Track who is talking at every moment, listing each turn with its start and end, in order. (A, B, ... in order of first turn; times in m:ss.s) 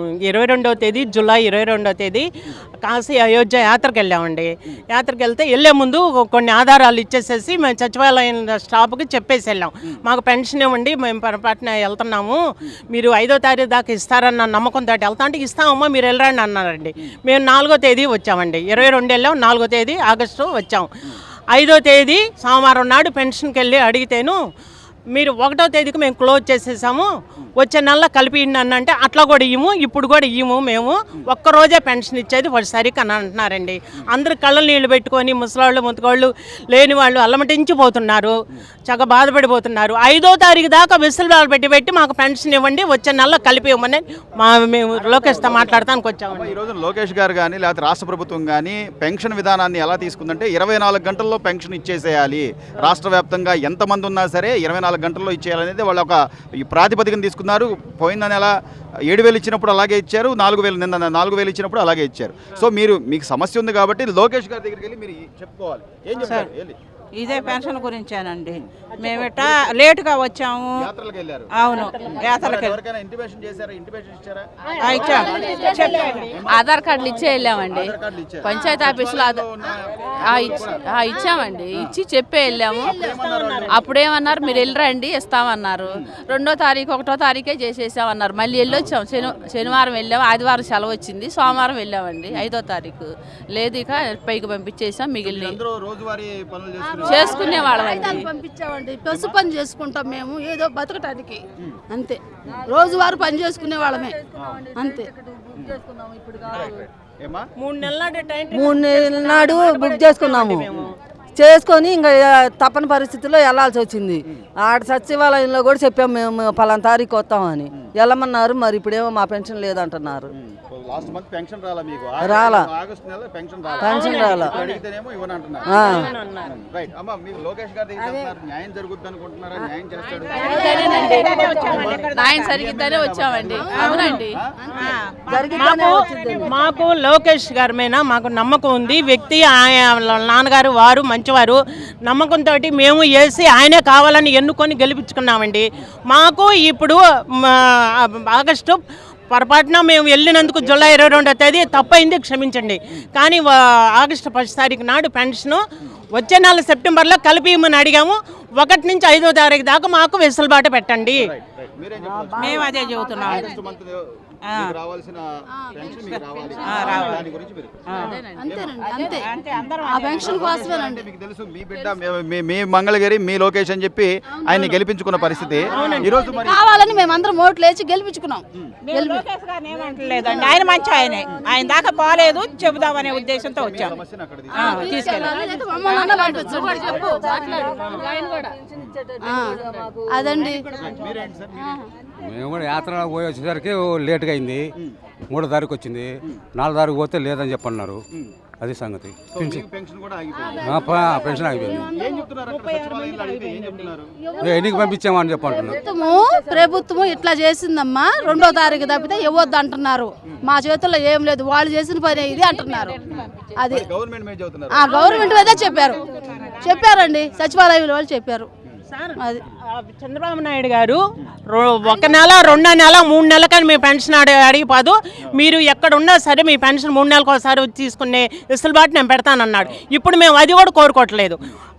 0:00.2-0:02.2 A
0:02.8-0:12.4 A
0:12.9-0:20.9 A
0:21.5-0:24.4 A
0:25.1-0:38.3 A
0:38.9-0:46.5 A
0:45.4-0:45.7 B
0:46.3-0:58.5 B
0:59.1-1:06.8 B
1:06.2-1:06.5 C
1:07.1-1:10.7 C
1:09.0-1:09.4 A
1:10.8-1:11.5 B
1:11.5-1:12.8 C
1:11.7-1:12.0 A
1:12.1-1:15.3 B
1:14.7-1:16.3 A
1:14.8-1:15.1 C
1:15.1-1:16.2 D
1:16.3-1:16.6 B
1:16.5-1:18.0 E
1:17.7-1:20.8 B
1:18.5-1:18.9 D
1:18.5-1:19.5 E
1:20.2-1:23.0 E
1:21.0-1:21.6 D
1:22.4-1:23.2 D
1:22.8-1:23.9 B
1:23.1-1:23.8 A
1:23.7-1:35.6 E
1:24.3-1:24.6 D
1:28.7-1:29.8 B
1:35.2-1:38.2 B
1:36.8-1:44.2 D
1:37.0-1:38.2 E
1:39.1-1:39.4 B
1:44.4-1:44.6 B
1:44.7-1:45.1 D
1:45.6-1:45.8 B
1:46.4-1:47.5 B
1:47.6-1:50.9 A
1:48.5-1:50.7 F
1:51.4-2:00.3 F
2:00.3-2:05.8 B
2:02.2-2:02.7 F
2:03.8-2:04.5 F
2:03.8-2:04.8 A
2:05.7-2:06.1 F
2:05.7-2:06.5 A
2:06.4-2:10.9 B
2:10.4-2:12.1 A
2:10.4-2:11.5 D
2:10.6-2:11.4 E
2:11.5-2:12.5 C
2:11.6-2:14.9 B
2:12.1-2:14.3 E
2:13.5-2:15.0 D
2:14.9-2:16.8 C
2:15.3-2:16.5 F
2:15.5-2:28.8 A
2:29.3-2:35.6 A
2:30.6-2:31.5 B
2:36.1-2:41.2 A
2:41.2-2:47.7 B
2:42.4-2:43.4 C
2:45.6-2:47.1 D
2:46.7-2:47.1 C
2:48.0-2:48.2 E
2:48.3-2:49.3 D
2:48.4-2:56.6 B
2:49.3-2:50.0 C
2:49.9-2:51.0 D
2:54.3-2:54.6 D
2:55.6-2:59.2 D
2:55.7-2:56.1 A
2:58.9-3:03.9 C
3:00.2-3:00.5 D
3:03.5-3:05.3 B
3:04.6-3:07.7 D
3:04.7-3:05.2 C
3:06.0-3:07.6 E
3:08.7-3:09.0 B
3:09.2-3:10.6 D
3:10.7-3:11.8 B
3:11.6-3:11.9 D
3:12.4-3:14.6 G
3:15.3-3:16.0 G
3:16.6-3:18.0 G
3:18.6-3:19.6 G
3:19.3-3:20.7 B
3:20.4-3:22.3 D
3:20.6-3:21.8 G
3:21.8-3:24.1 B
3:22.6-3:23.3 C
3:24.2-3:24.9 D
3:24.4-3:25.8 G
3:25.4-3:33.0 D
3:33.1-3:35.0 B
3:33.6-3:33.8 D
3:34.7-3:36.0 D
3:36.2-3:36.5 C
3:36.6-3:38.5 D
3:38.9-3:39.2 A
3:39.8-3:51.4 A